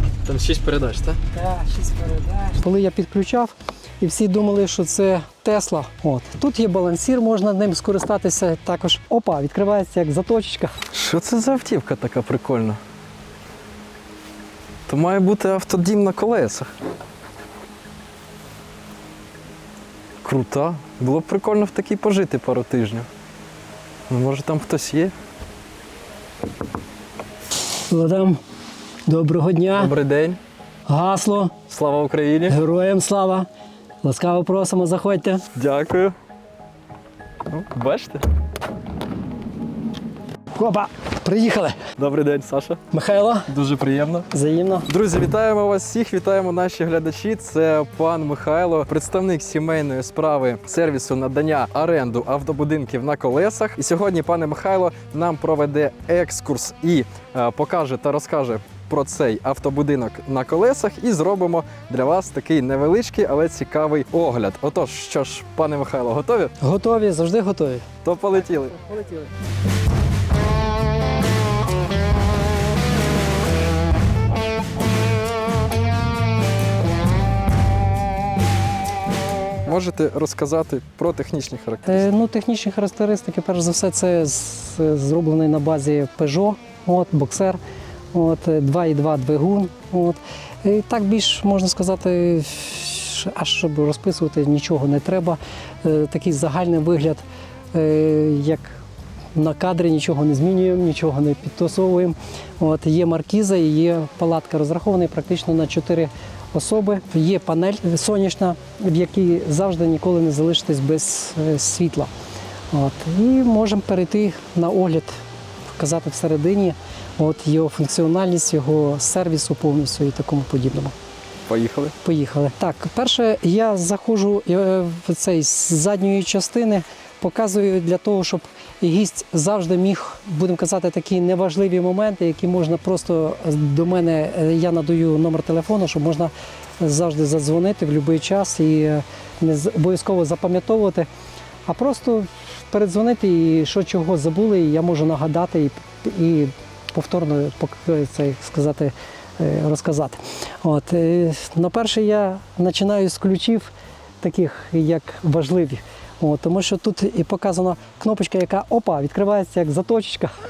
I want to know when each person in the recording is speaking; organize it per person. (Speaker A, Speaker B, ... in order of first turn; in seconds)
Speaker A: 0.2-1.2, 10.9-12.8, 14.9-16.7, 20.2-23.1, 24.1-25.1, 29.8-30.4, 31.7-32.6, 35.5-36.1, 37.5-38.2, 42.0-42.8, 43.5-44.3, 44.9-66.5, 68.0-68.8, 79.6-82.1, 121.5-122.0
Speaker B: 1.3-10.8, 27.9-28.4, 29.1-29.9, 30.9-31.6, 32.5-33.5, 34.0-35.4, 40.5-41.8, 42.9-43.5, 44.3-44.9, 66.6-67.8, 68.8-69.3, 81.8-87.6, 88.1-98.8, 99.3-112.1, 112.7-115.1, 115.8-120.9, 122.0-141.1, 141.7-153.7, 154.2-160.3